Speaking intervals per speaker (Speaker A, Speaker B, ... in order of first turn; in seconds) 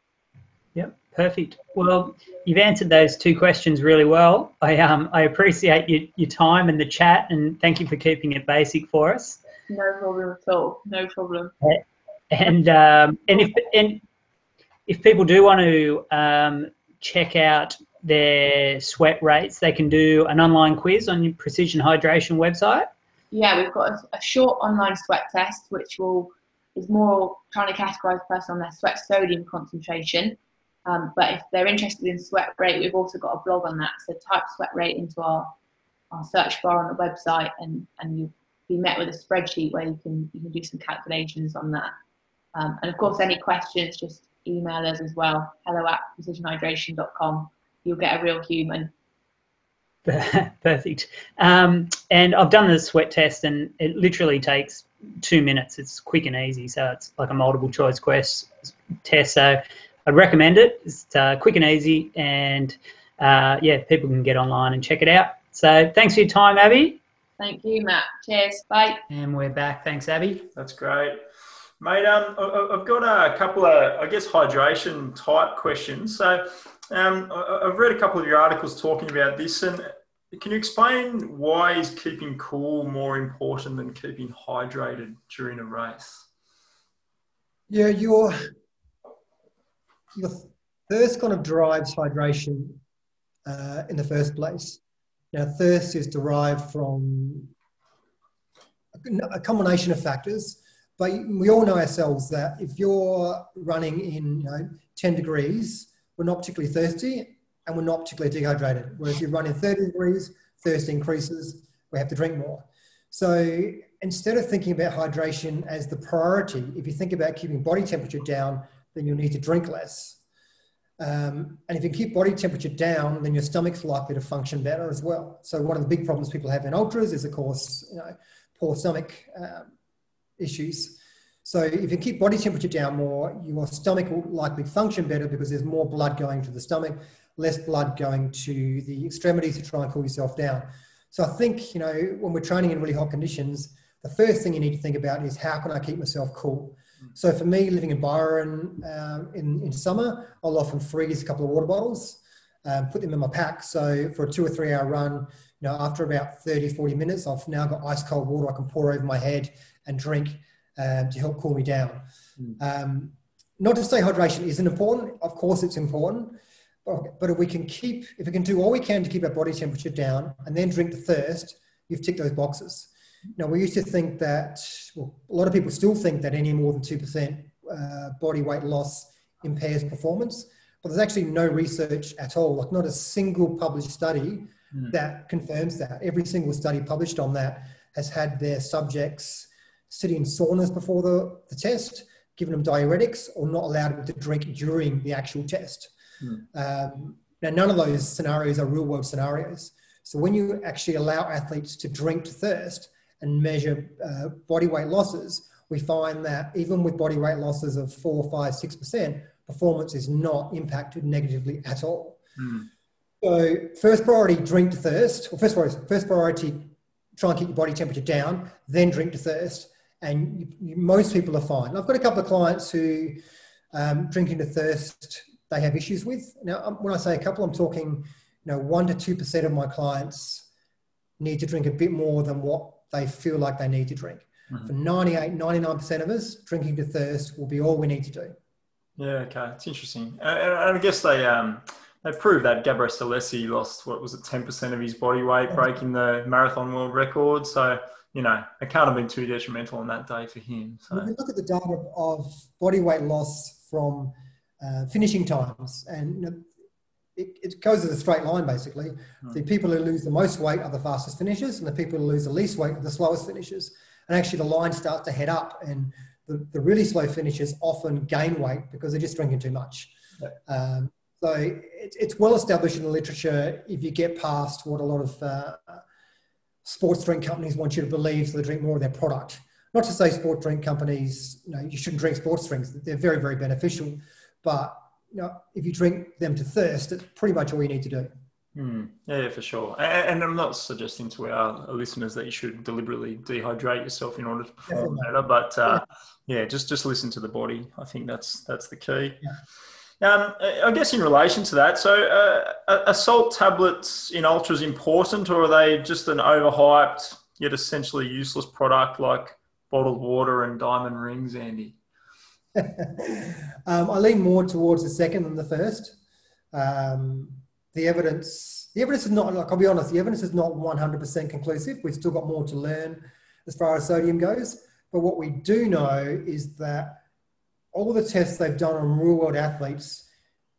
Speaker A: 0.8-9.4, 11.6-14.0, 14.9-22.9, 50.0-67.0, 69.1-70.5
Speaker B: 9.7-11.6, 23.3-35.5, 36.1-41.9, 42.5-48.9, 67.4-69.0
Speaker C: 70.6-71.2, 71.8-86.3, 212.4-212.7, 239.0-251.1, 288.6-299.2, 300.0-311.8
Speaker D: 87.7-88.4, 90.2-92.8, 93.5-94.8, 95.3-97.5, 99.0-120.2, 121.0-129.7, 130.4-162.1, 162.6-195.9, 196.5-212.2, 213.2-223.2, 223.7-230.5, 231.2-238.3, 250.9-256.5, 257.2-269.9, 270.5-275.8, 276.6-288.1, 294.7-295.1, 312.6-316.0, 316.5-327.0, 327.7-330.1